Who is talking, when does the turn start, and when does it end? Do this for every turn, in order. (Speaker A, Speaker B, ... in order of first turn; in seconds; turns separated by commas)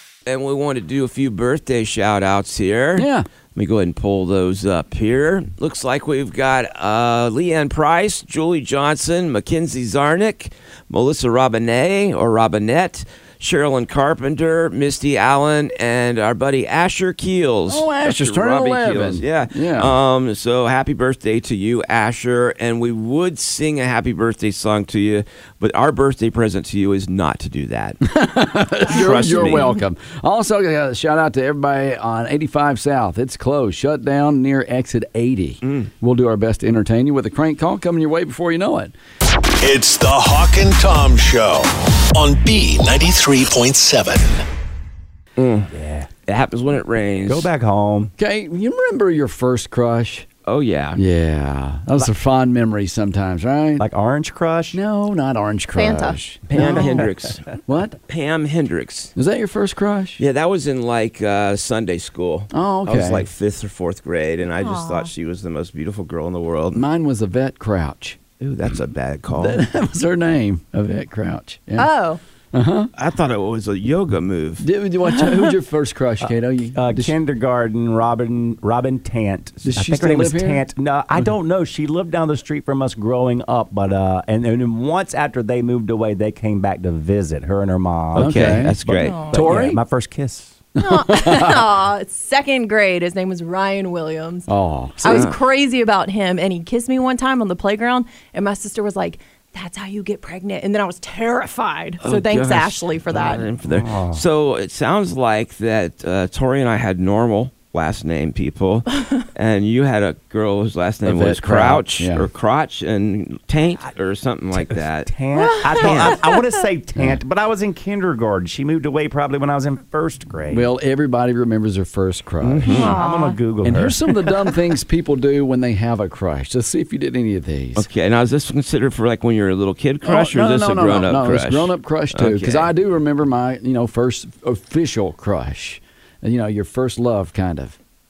Speaker A: 0.2-28.0, Speaker B: 3.0-3.3, Speaker B: 17.7-20.0, Speaker B: 28.0-38.9, Speaker A: 28.9-29.7, Speaker A: 35.6-35.9, Speaker C: 39.6-44.4, Speaker A: 45.4-45.7, Speaker D: 45.7-46.1, Speaker A: 46.3-47.5, Speaker D: 47.3-48.1, Speaker B: 48.2-50.3, Speaker A: 50.5-51.0, Speaker B: 51.0-53.9, Speaker D: 53.8-54.8, Speaker B: 54.7-56.8, Speaker E: 55.7-56.7, Speaker A: 56.5-57.5, Speaker D: 56.5-57.0, Speaker B: 57.6-58.0, Speaker A: 58.1-59.1, Speaker B: 59.1-60.2, Speaker A: 60.2-66.8, Speaker B: 62.5-63.3, Speaker E: 64.6-65.1, Speaker B: 66.7-68.2, Speaker A: 68.4-69.6, Speaker B: 69.3-71.9, Speaker E: 71.8-72.2, Speaker B: 72.5-72.9, Speaker A: 73.0-74.6, Speaker B: 74.6-77.2, Speaker D: 76.2-90.6, Speaker B: 79.6-80.7, Speaker A: 88.1-89.2, Speaker B: 88.2-88.8, Speaker E: 89.0-89.5, Speaker B: 89.3-89.8, Speaker B: 90.8-91.4, Speaker E: 90.8-94.5, Speaker B: 94.5-95.3, Speaker E: 95.0-103.5, Speaker A: 95.1-95.4, Speaker A: 102.0-115.2, Speaker D: 103.4-104.2, Speaker B: 111.0-112.3, Speaker D: 114.5-120.7, Speaker E: 115.3-116.5, Speaker A: 115.7-116.2, Speaker B: 116.9-117.2, Speaker B: 120.5-122.8, Speaker A: 122.4-123.0, Speaker E: 122.6-123.4, Speaker D: 122.7-124.1, Speaker B: 123.6-127.9, Speaker A: 127.8-132.7, Speaker B: 130.0-137.8